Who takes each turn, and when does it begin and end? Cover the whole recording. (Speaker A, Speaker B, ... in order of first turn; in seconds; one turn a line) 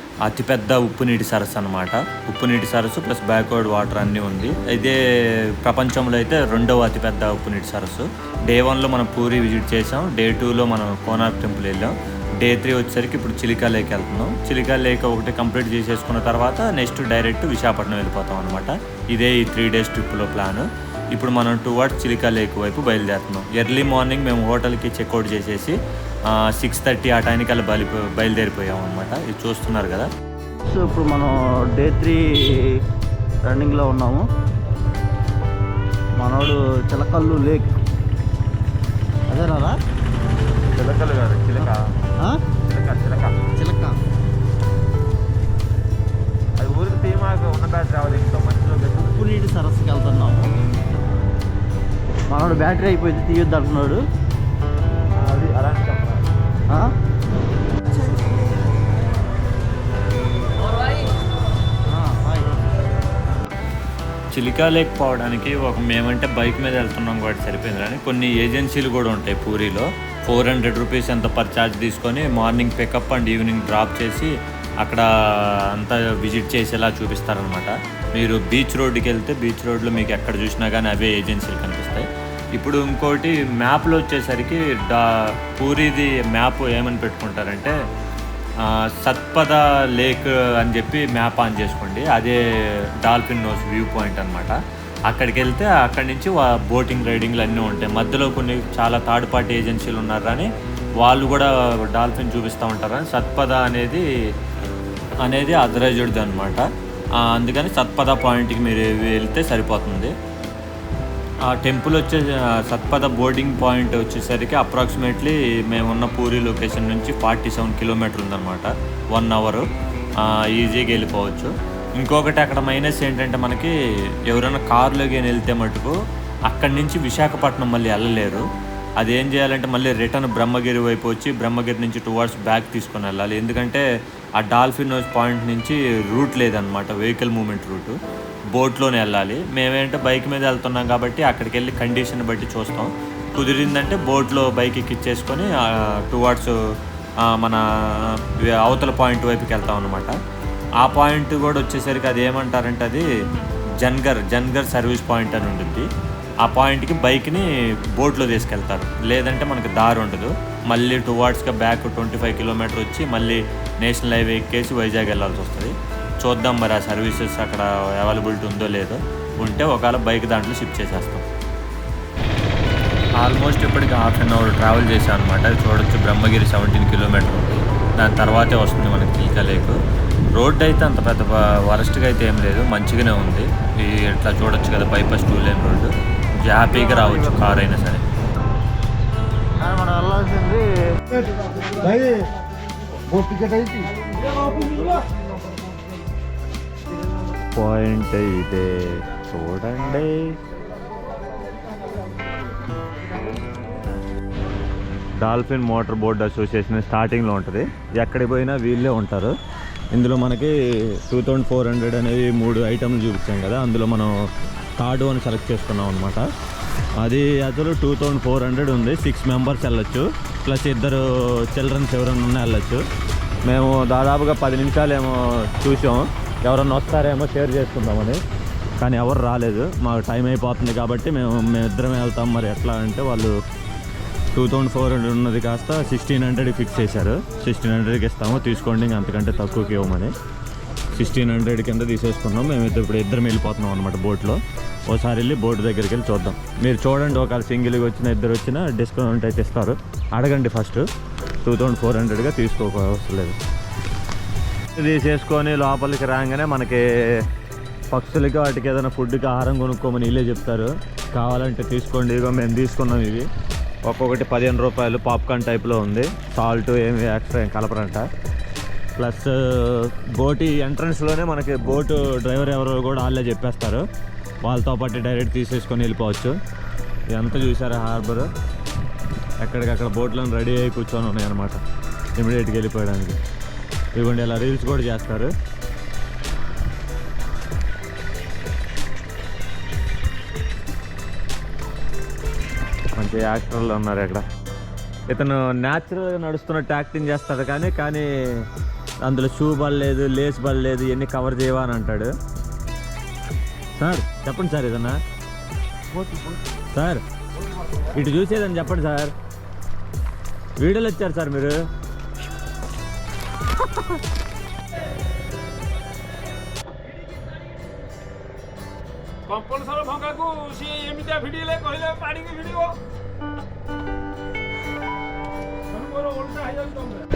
Speaker A: 0.2-5.0
Speaker A: 5.6-25.7
Speaker A: 26.3-30.1
Speaker B: 30.7-32.2
Speaker B: 33.5-34.2
Speaker B: 36.2-37.7
Speaker B: 39.3-39.7
Speaker A: 40.7-41.8
Speaker A: 42.6-43.4
Speaker B: 43.6-44.0
Speaker A: 46.6-49.2
Speaker B: 49.1-50.5
Speaker B: 52.3-54.0
Speaker A: 55.2-56.2
Speaker B: 61.9-62.6
Speaker A: 64.3-74.3
Speaker A: 74.8-87.8
Speaker A: 88.6-94.5
Speaker A: 95.1-100.5
Speaker A: 101.0-104.0
Speaker A: 105.2-106.7
Speaker A: 107.2-110.1
Speaker A: 111.4-119.7
Speaker A: 120.2-123.7
Speaker A: 124.3-125.9
Speaker A: 126.5-128.5
Speaker A: 129.0-133.8
Speaker A: 134.4-137.9
Speaker A: 138.5-146.5
Speaker A: 147.2-150.2
Speaker A: 150.8-153.1
Speaker A: 153.8-155.9
Speaker A: 156.4-171.2
Speaker A: 173.2-179.8
Speaker A: 180.3-188.0
Speaker B: 186.7-187.4
Speaker B: 189.6-192.2
Speaker B: 193.1-193.9
Speaker A: 197.5-200.4
Speaker A: 205.2-209.3
Speaker A: 209.9-214.1
Speaker A: 214.8-216.2
Speaker A: 217.0-222.8
Speaker A: 223.4-228.2
Speaker A: 228.8-233.3
Speaker A: 234.3-240.1
Speaker A: 240.9-250.8
Speaker A: 251.4-253.4
Speaker A: 254.8-256.8
Speaker A: 257.9-263.2
Speaker A: 263.9-268.1
Speaker A: 269.0-273.8
Speaker A: 274.4-276.4
Speaker A: 277.1-278.3
Speaker A: 279.4-281.6
Speaker A: 282.2-283.2
Speaker A: 283.9-285.3
Speaker A: 292.9-294.2
Speaker A: 295.1-298.4
Speaker A: 299.0-302.1
Speaker A: 303.8-305.0
Speaker A: 306.7-307.0
Speaker A: 307.9-309.1
Speaker A: 310.6-311.6
Speaker C: 319.3-322.7
Speaker C: 326.2-326.7